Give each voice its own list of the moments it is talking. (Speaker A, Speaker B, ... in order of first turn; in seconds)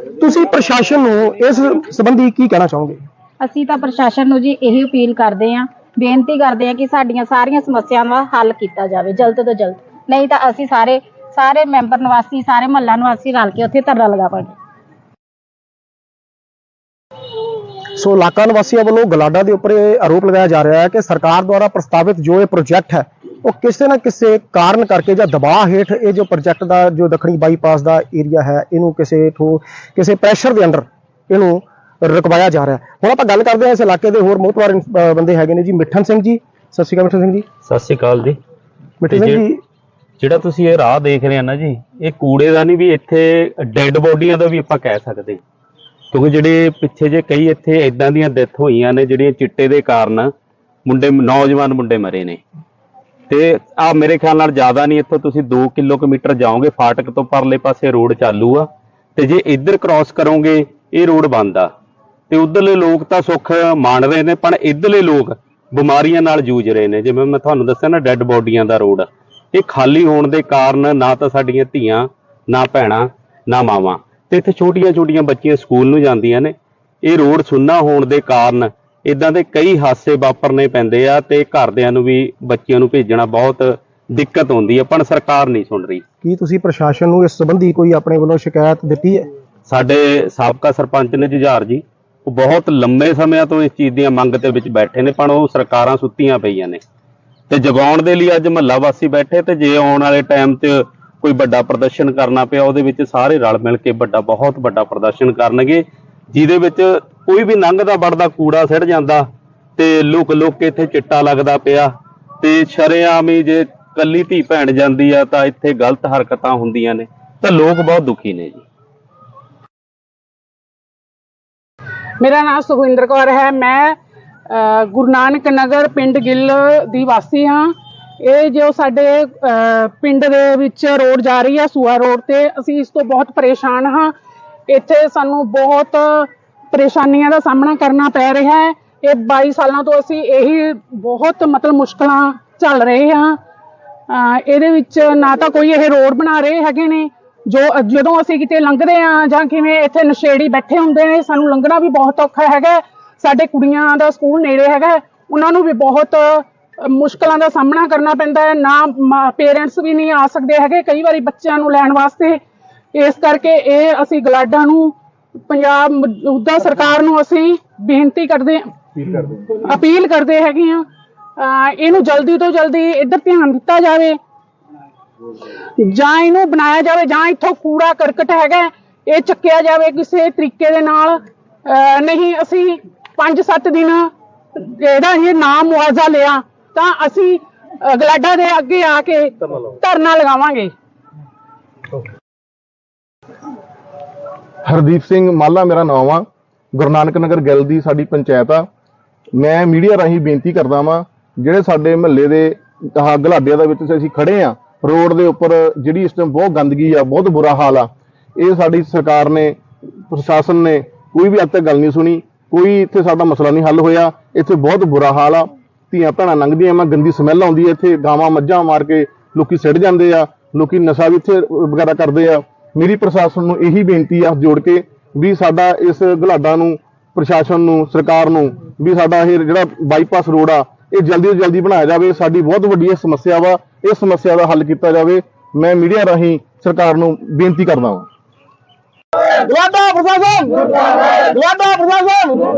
Speaker A: 0.2-3.0, 18.0-37.4, 39.0-39.6, 86.2-89.2
Speaker B: 3.4-14.6
Speaker C: 37.6-38.4, 39.1-39.4, 40.2-45.4, 46.1-50.3, 50.9-52.4, 53.3-61.7, 62.3-76.5, 77.0-86.0, 89.7-96.8, 97.5-109.2, 109.8-118.6
Speaker D: 122.2-123.9, 124.5-127.7, 128.2-134.1, 134.7-143.4, 144.1-162.4, 162.9-164.9, 165.5-170.8, 171.4-174.2, 175.8-190.7
Speaker E: 194.7-198.7, 199.3-209.6, 210.1-238.1, 239.5-240.5, 241.3-242.3